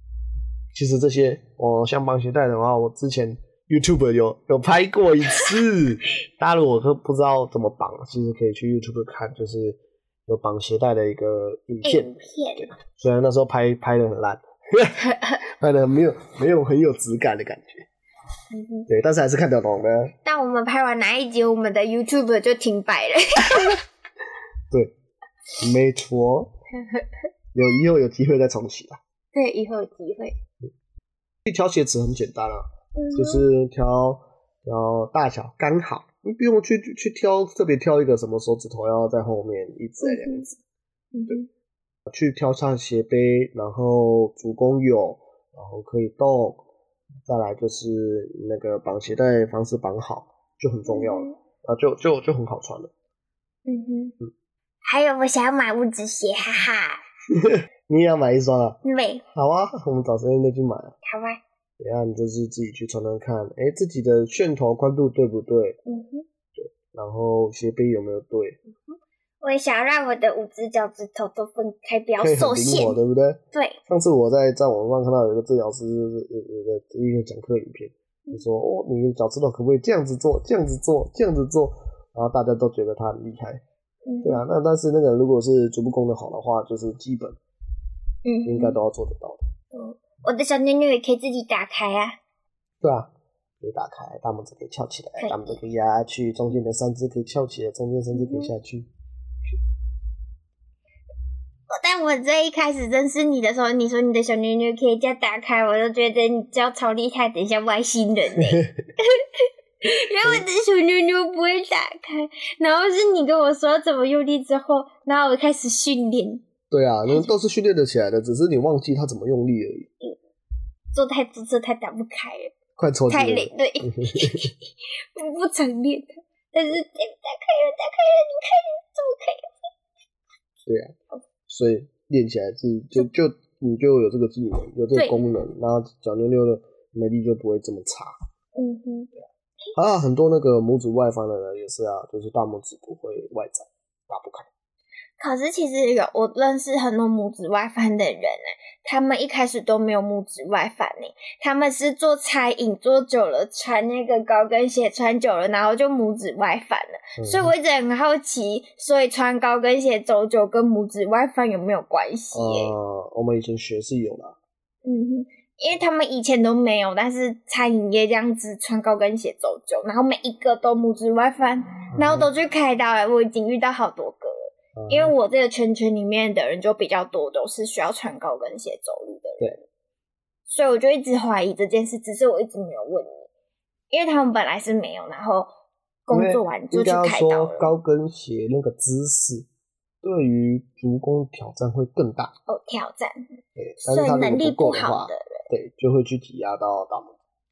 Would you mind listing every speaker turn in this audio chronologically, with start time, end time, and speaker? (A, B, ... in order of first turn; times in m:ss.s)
0:00.7-0:17.8 A
0:11.8-0:12.7 B
0:15.0-0:15.3 B
0:18.5-0:18.9 B
0:18.9-0:20.1 A
0:20.2-0:23.8 B
0:25.6-0:26.5 A
0:26.8-0:27.0 B
0:27.5-0:29.0 A
0:29.3-0:30.4 B
0:31.4-0:40.6 A
0:32.9-0:33.5 B
0:40.0-0:40.4 B
0:41.1-0:41.5 B
0:42.1-0:46.6 A
0:47.3-0:52.9 A
0:50.9-0:51.4 B
0:53.6-0:54.2 B
0:54.8-0:57.0 B
0:57.3-0:58.8 A
0:58.8-0:59.2 B
0:59.3-1:00.9 A
1:01.0-1:01.4 B
1:01.8-1:05.8 A
1:05.8-1:06.2 B
1:06.5-1:08.6 A
1:08.8-1:13.0 B
1:12.2-1:23.6 A
1:13.5-1:13.8 B
1:24.0-1:24.4 B
1:24.2-1:27.4 A
1:28.2-1:28.8 B
1:28.4-1:29.5 A
1:29.7-1:32.1 B
1:32.8-1:33.1 A
1:33.6-1:38.9 A
1:35.2-1:35.6 B
1:38.1-1:38.5 B
1:41.7-1:49.2 B
1:49.8-1:56.4 B
1:56.7-1:59.9 A
2:00.9-2:02.5 B
2:02.8-2:04.5 A
2:03.1-2:04.6 B
2:05.1-2:09.7 B
2:10.6-2:10.9 A
2:11.5-2:18.1 A
2:18.5-2:19.1 B
2:19.8-2:24.5 A
2:25.2-2:42.7 B
2:37.2-2:37.5 A
2:42.3-2:44.3 A
2:44.8-2:59.6 B
2:51.9-2:52.3 A
2:54.8-2:55.1 A
3:00.5-3:03.3 B
3:03.9-3:05.5 B
3:06.0-3:07.7 B
3:06.1-3:09.5 A
3:10.0-3:12.3 A
3:12.5-3:13.3 B
3:13.6-3:17.2 A
3:13.8-3:15.4 B